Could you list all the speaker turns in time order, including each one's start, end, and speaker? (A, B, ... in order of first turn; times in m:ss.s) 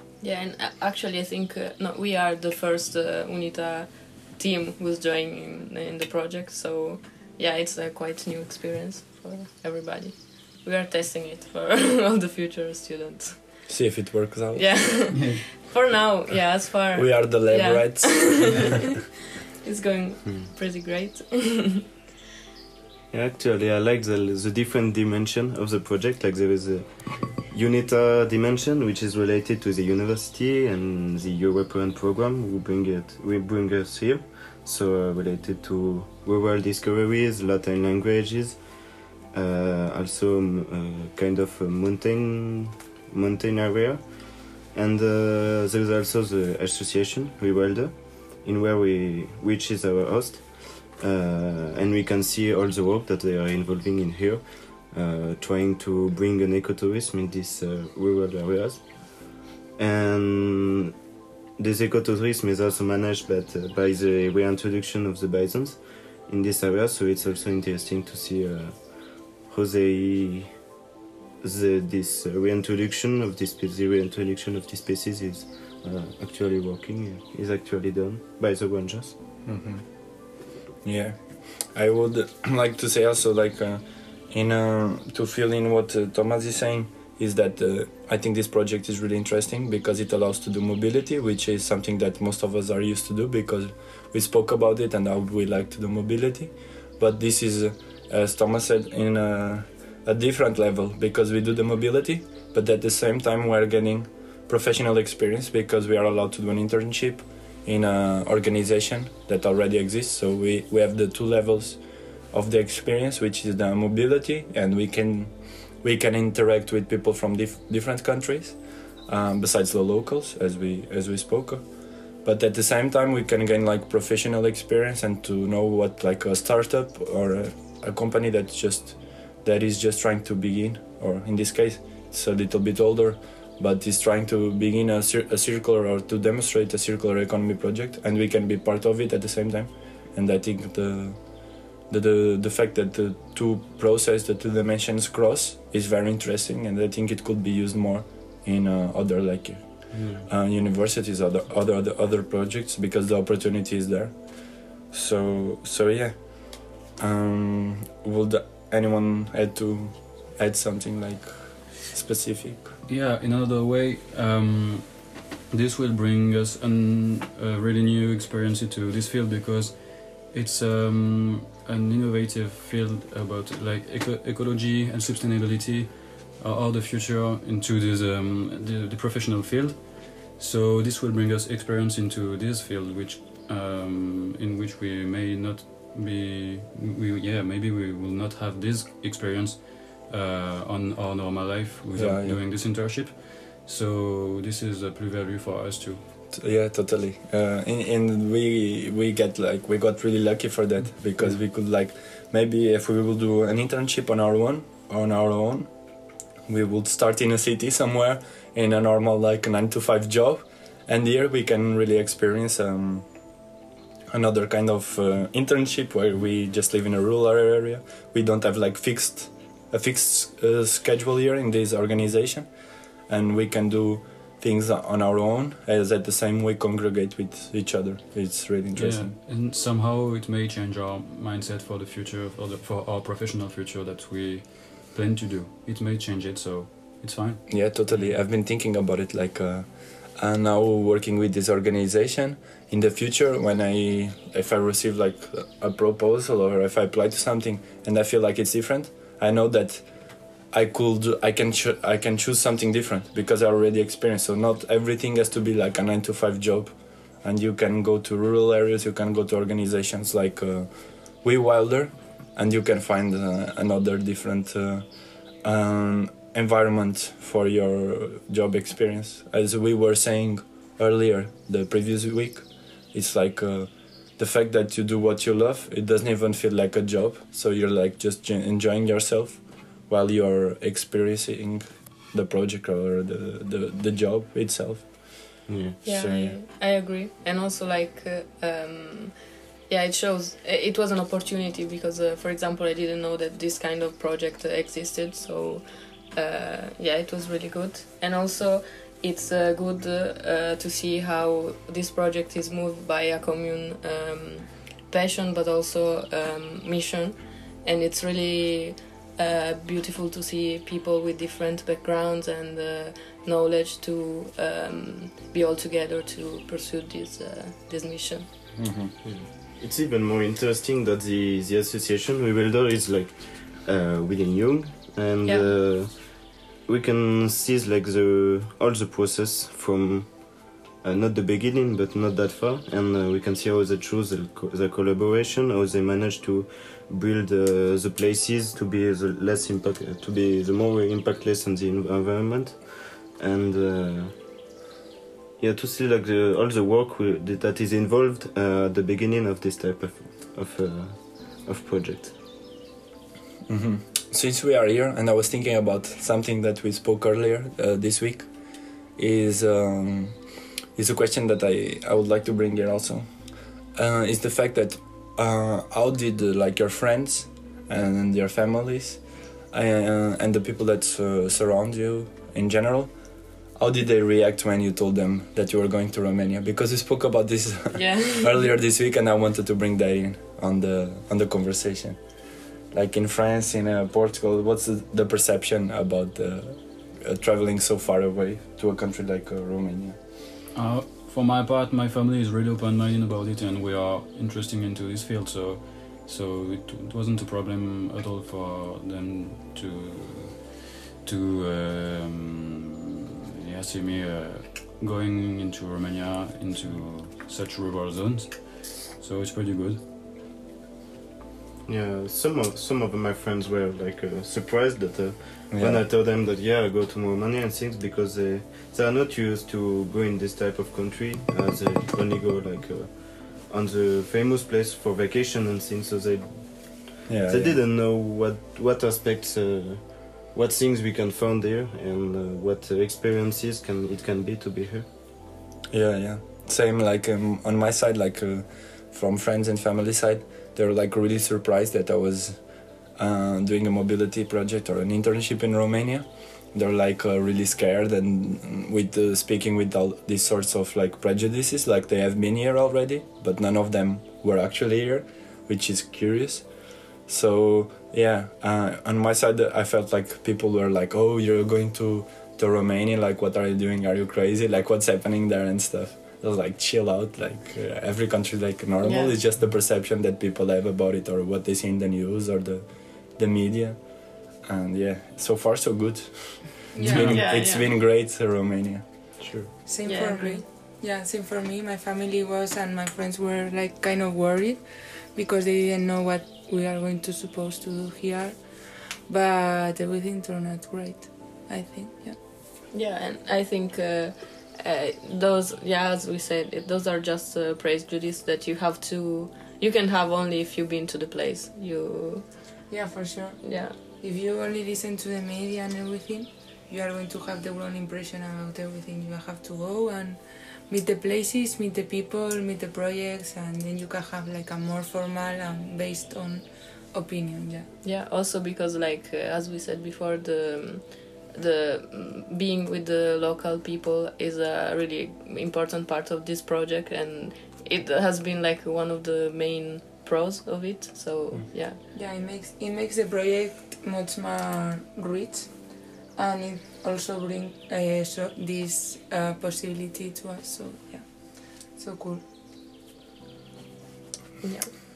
0:00.2-0:13.7 A
0:13.7-0:15.1 B
0:14.5-0:18.8 A
0:15.1-0:15.6 C
0:16.9-0:18.6 B
0:19.6-0:21.8 A
0:23.1-1:00.9 D
1:01.6-1:10.6 D
1:11.4-1:19.1 D
1:19.4-2:42.7 B
2:29.9-2:30.3 D
2:42.9-3:16.0 C
3:11.9-3:12.4 B
3:16.3-3:33.2 B
3:34.1-3:49.1 B
3:48.7-3:58.1 C
3:57.5-4:46.4 B
4:45.5-4:45.8 D
4:45.8-5:18.3 A
5:18.6-5:18.9 B
5:19.0-5:44.2 D
5:25.2-5:25.5 A
5:45.4-5:52.1 D
5:53.5-5:58.4 B
5:58.9-6:30.0 B
6:17.7-6:18.5 A
6:30.5-6:42.8 C
6:43.4-6:49.8 C
6:51.6-7:14.9 D
6:55.5-6:55.8 B
7:07.1-7:07.6 B
7:15.7-7:59.4 B
7:48.8-7:49.2 A
7:56.7-7:57.1 E
7:56.8-7:57.7 A
7:59.2-7:59.5 D
7:59.6-8:12.2 E
7:59.8-8:00.4 A
8:12.7-8:22.7 A
8:22.7-8:37.7 E
8:23.4-8:23.8 A
8:37.8-8:51.8 A
8:51.8-9:02.2 E
9:04.4-9:04.7 A